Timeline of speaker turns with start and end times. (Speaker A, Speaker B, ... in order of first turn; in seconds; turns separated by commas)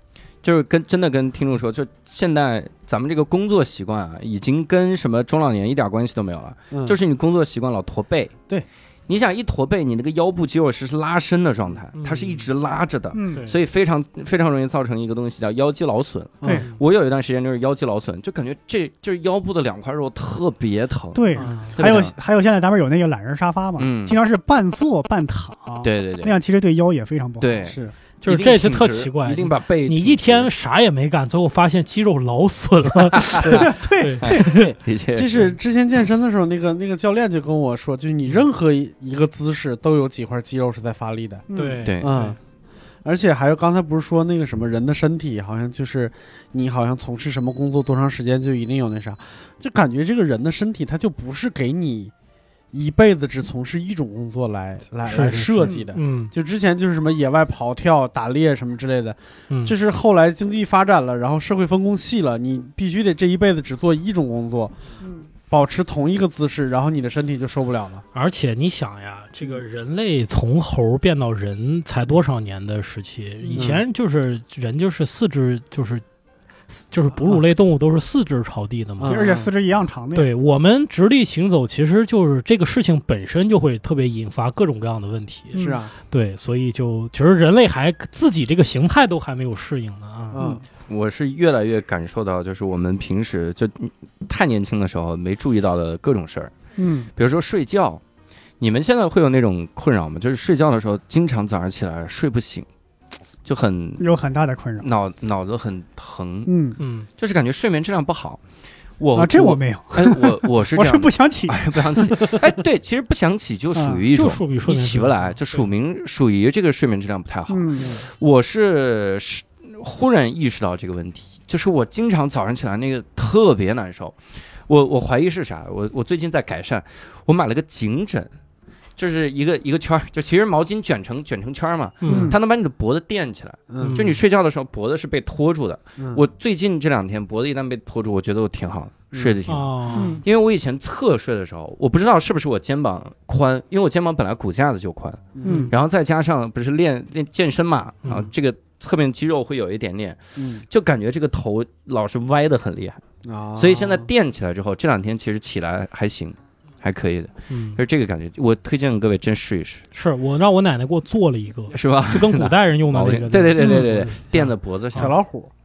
Speaker A: 0.4-8.3, Speaker B: 6.7-7.0, Speaker A: 9.1-22.1, Speaker C: 12.0-12.5, Speaker D: 13.1-13.5, Speaker C: 16.5-16.8, Speaker D: 21.1-27.8, Speaker C: 21.4-21.8, Speaker A: 23.8-24.2, Speaker A: 25.8-26.4, Speaker A: 27.4-30.5, Speaker B: 27.7-27.9, Speaker C: 28.2-34.6, Speaker A: 33.2-33.5, Speaker B: 33.4-33.7, Speaker D: 33.6-34.4, Speaker A: 34.2-35.5, Speaker B: 34.3-41.5, Speaker D: 41.5-41.8, Speaker C: 41.5-42.4, Speaker B: 42.0-42.4, Speaker B: 43.0-52.1, Speaker B: 52.7-64.9, Speaker C: 55.1-56.3, Speaker B: 65.5-68.0, Speaker C: 68.1-76.0, Speaker B: 73.5-73.8, Speaker C: 76.7-79.3, Speaker B: 79.0-79.5, Speaker D: 79.0-80.3, Speaker C: 80.1-90.4, Speaker D: 85.5-85.8, Speaker B: 85.6-85.9, Speaker B: 90.3-90.6, Speaker D: 90.4-90.6, Speaker A: 90.9-96.5, Speaker D: 96.8-97.1, Speaker A: 97.2-98.0, Speaker A: 98.6-102.7, Speaker A: 103.5-104.1, Speaker D: 104.0-104.9, Speaker A: 104.8-106.5, Speaker D: 106.5-106.8, Speaker C: 106.8-107.1, Speaker A: 107.2-108.4, Speaker A: 109.0-128.3, Speaker D: 109.2-112.4, Speaker D: 113.8-114.0, Speaker C: 114.1-115.4, Speaker D: 117.5-118.0, Speaker A: 129.0-153.0, Speaker C: 132.0-132.3, Speaker D: 132.1-132.4, Speaker B: 133.7-134.0, Speaker C: 133.8-134.2, Speaker B: 139.1-139.4, Speaker C: 139.5-140.2, Speaker D: 139.9-140.2, Speaker B: 145.4-145.7, Speaker D: 145.4-145.7, Speaker C: 148.0-148.3, Speaker B: 150.4-150.7, Speaker B: 153.2-154.1, Speaker A: 153.6-159.8, Speaker C: 157.5-157.8, Speaker C: 159.9-165.1, Speaker A: 161.7-165.2, Speaker B: 164.9-165.5